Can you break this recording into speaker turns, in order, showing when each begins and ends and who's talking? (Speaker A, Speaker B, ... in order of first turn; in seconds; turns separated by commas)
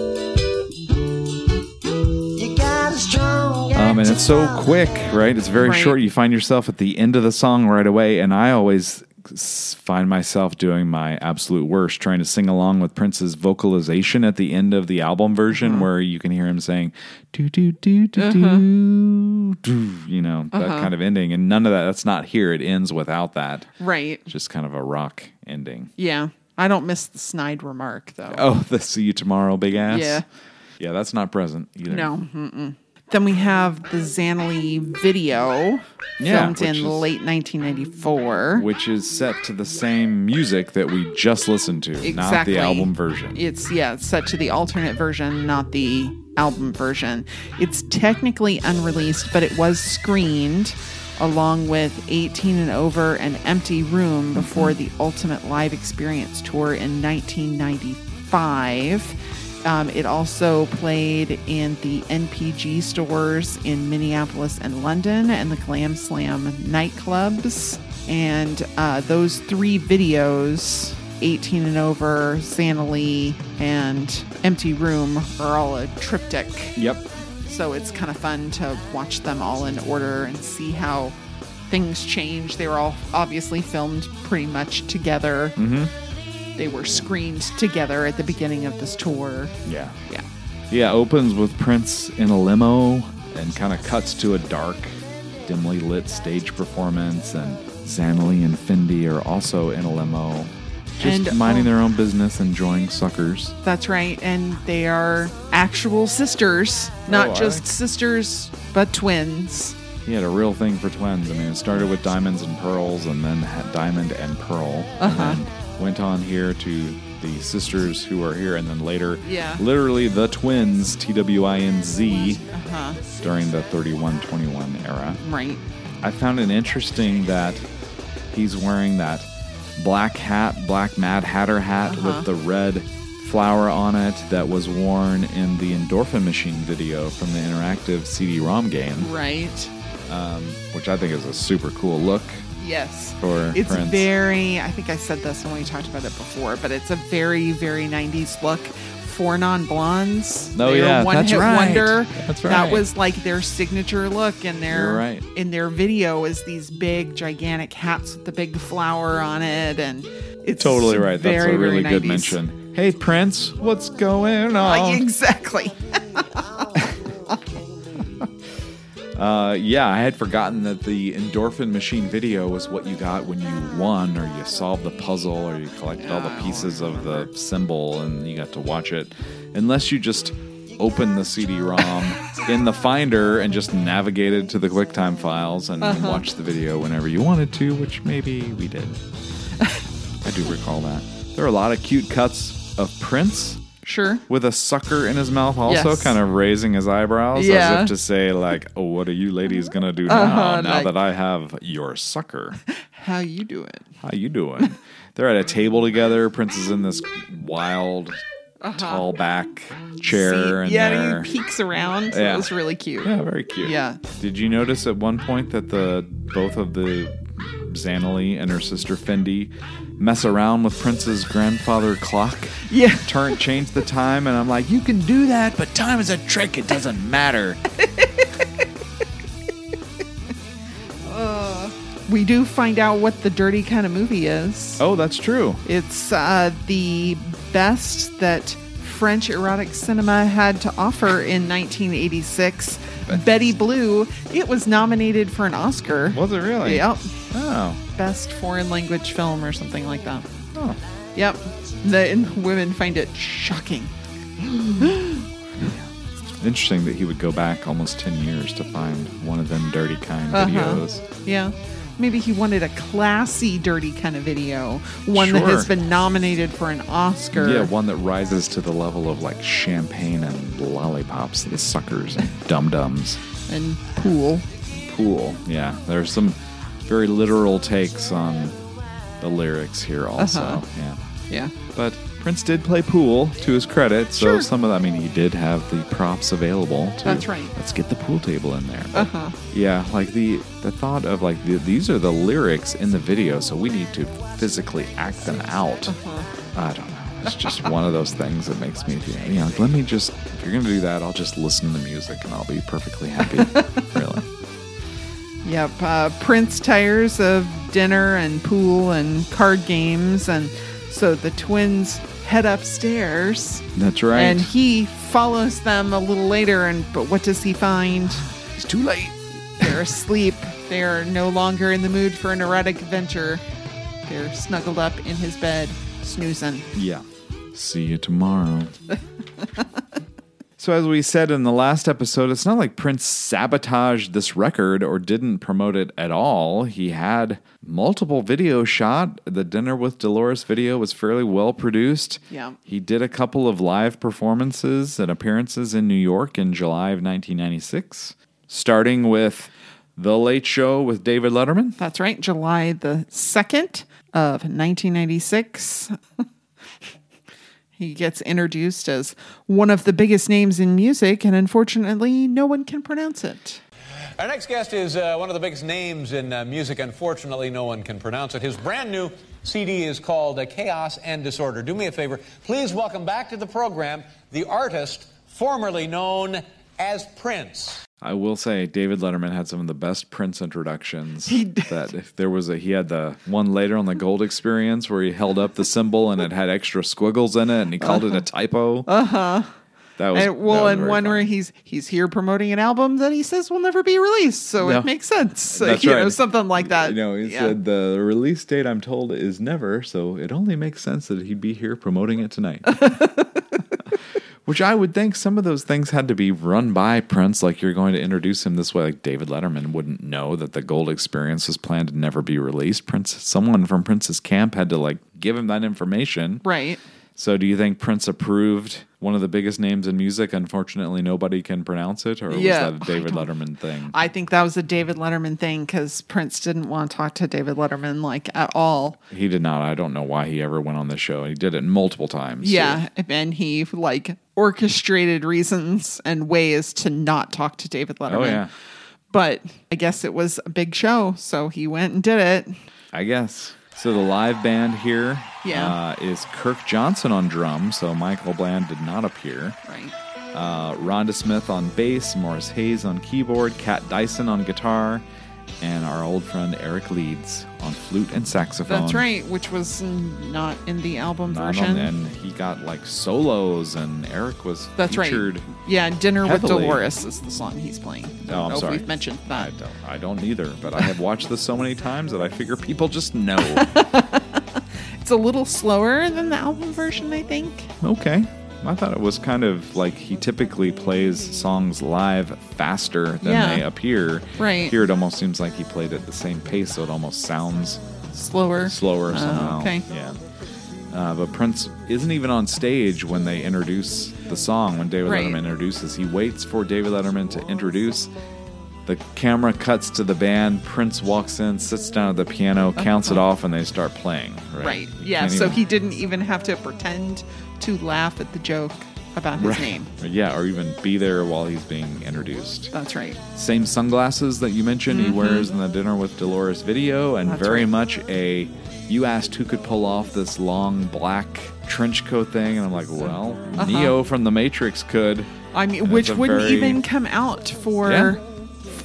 Speaker A: 2.3-5.2, Speaker B: 3.7-23.7, Speaker C: 5.6-6.0, Speaker C: 15.5-15.9, Speaker C: 18.2-18.7, Speaker C: 20.5-20.9, Speaker C: 23.8-24.3, Speaker B: 24.3-25.9, Speaker C: 26.0-28.5, Speaker B: 28.3-30.2, Speaker C: 29.9-30.2, Speaker B: 30.8-32.1, Speaker C: 31.9-38.7, Speaker B: 36.2-37.1, Speaker B: 38.5-43.4, Speaker C: 42.0-76.8, Speaker B: 54.3-54.8, Speaker B: 76.8-77.1, Speaker C: 77.5-81.2, Speaker C: 81.7-85.6, Speaker B: 85.6-85.9, Speaker C: 86.6-89.6, Speaker B: 89.7-90.0, Speaker B: 90.7-103.6, Speaker C: 101.0-101.7, Speaker C: 103.6-109.8, Speaker B: 107.1-107.7, Speaker B: 110.0-122.4, Speaker C: 115.0-115.4, Speaker C: 119.2-119.6, Speaker C: 122.5-123.0, Speaker B: 123.2-125.2, Speaker C: 125.2-125.6, Speaker B: 126.0-127.7, Speaker B: 128.3-139.1, Speaker C: 131.9-132.3, Speaker C: 139.0-139.7, Speaker B: 140.1-142.5, Speaker C: 142.6-162.4, Speaker B: 143.2-144.1, Speaker B: 150.6-152.9, Speaker B: 154.7-155.3, Speaker B: 160.6-165.1, Speaker C: 164.6-166.4, Speaker A: 165.9-168.1, Speaker B: 169.2-189.0, Speaker C: 176.0-177.3, Speaker C: 185.8-186.3, Speaker B: 190.2-193.7, Speaker C: 193.8-194.2, Speaker B: 194.3-202.6, Speaker C: 195.7-196.2, Speaker C: 197.3-197.9, Speaker C: 200.1-200.9, Speaker C: 202.7-203.9, Speaker B: 204.0-208.2, Speaker C: 208.6-209.1, Speaker B: 208.8-211.3, Speaker C: 210.1-214.0, Speaker B: 212.1-227.6, Speaker C: 222.7-223.4, Speaker C: 227.8-228.4, Speaker C: 231.1-234.8, Speaker B: 234.8-235.6, Speaker C: 235.7-247.2, Speaker B: 243.1-243.5, Speaker B: 246.1-247.8, Speaker C: 247.9-250.3, Speaker B: 250.5-250.8, Speaker C: 251.2-253.9, Speaker B: 254.4-255.0, Speaker C: 254.8-255.2, Speaker B: 255.6-261.0, Speaker C: 260.3-267.7, Speaker B: 265.1-265.7, Speaker B: 267.3-273.2, Speaker C: 273.5-274.5, Speaker B: 274.7-278.6, Speaker B: 279.2-281.0, Speaker C: 280.2-280.6, Speaker B: 281.7-296.0, Speaker C: 284.2-284.5, Speaker C: 287.0-287.6, Speaker C: 288.9-289.4, Speaker C: 295.9-296.3, Speaker B: 296.5-304.2, Speaker C: 303.4-303.9, Speaker C: 305.4-318.3, Speaker B: 313.8-314.5, Speaker B: 318.4-319.8, Speaker C: 319.6-323.4, Speaker C: 324.1-326.7, Speaker B: 326.7-328.8, Speaker B: 330.6-351.8, Speaker C: 342.3-342.6, Speaker C: 351.8-356.0, Speaker C: 357.8-363.6, Speaker D: 364.2-377.8, Speaker B: 378.0-388.9, Speaker C: 381.3-381.7, Speaker C: 387.8-388.2, Speaker C: 388.9-389.5, Speaker B: 390.0-391.3, Speaker C: 390.1-397.6, Speaker B: 394.6-394.9, Speaker B: 395.5-402.9, Speaker C: 402.8-403.3, Speaker B: 404.4-416.4, Speaker C: 416.4-416.8, Speaker B: 417.2-424.0, Speaker C: 422.3-423.3, Speaker C: 423.9-429.0, Speaker B: 429.1-432.9, Speaker C: 432.4-438.5, Speaker B: 438.1-438.5, Speaker C: 439.1-442.5, Speaker B: 442.9-449.6, Speaker C: 445.4-445.8, Speaker C: 449.6-449.9, Speaker B: 450.3-455.0, Speaker B: 455.6-459.1, Speaker C: 458.7-461.9, Speaker B: 461.3-465.5, Speaker C: 464.8-469.5, Speaker B: 466.2-466.8, Speaker B: 468.2-473.7, Speaker C: 473.5-477.7, Speaker B: 477.8-487.8, Speaker C: 483.2-483.6, Speaker C: 484.4-484.8, Speaker C: 488.1-489.9, Speaker B: 488.6-490.2, Speaker B: 490.9-498.1, Speaker C: 495.1-495.4, Speaker B: 498.9-505.6, Speaker C: 502.8-503.2, Speaker C: 504.6-509.9, Speaker B: 509.4-512.7, Speaker C: 512.7-513.2, Speaker B: 513.3-526.8, Speaker C: 514.9-515.5, Speaker C: 517.3-517.7, Speaker C: 523.6-524.0, Speaker C: 525.5-528.2, Speaker B: 527.8-528.2